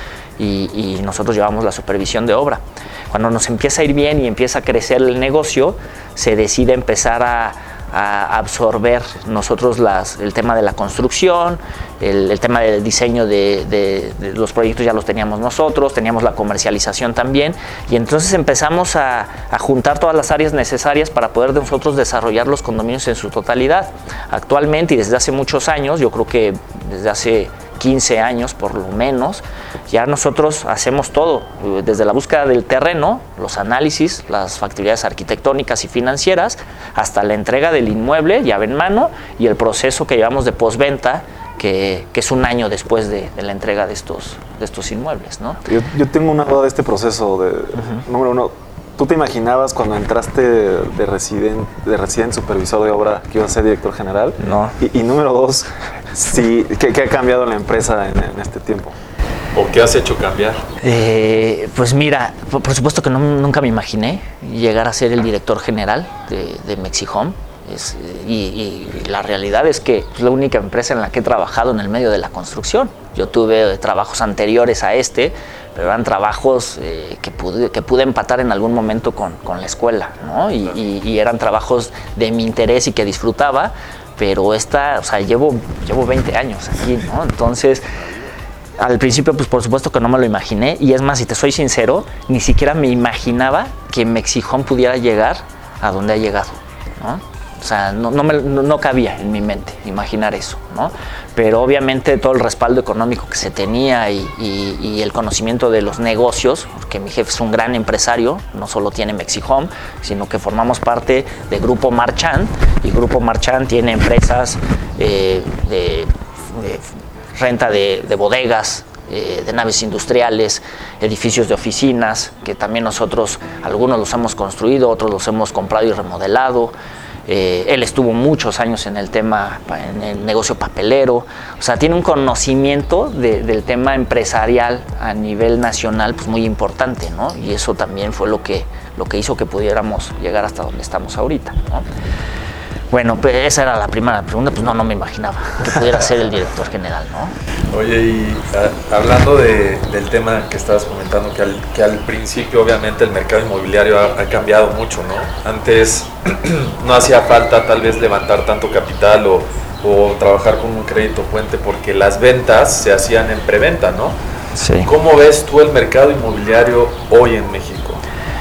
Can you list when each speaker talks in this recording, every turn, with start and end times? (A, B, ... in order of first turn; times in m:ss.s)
0:00.4-0:45.6 A
0:45.6-0:58.9 B
0:47.8-0:48.0 A
0:54.4-0:54.8 A
0:59.5-1:00.6 C
1:00.8-1:27.8 A
1:28.0-1:28.3 C
1:28.8-2:06.7 A
2:07.3-2:21.8 A
2:22.9-2:27.3 A
2:27.7-2:44.2 C
2:44.6-2:44.9 A
2:44.8-2:48.0 C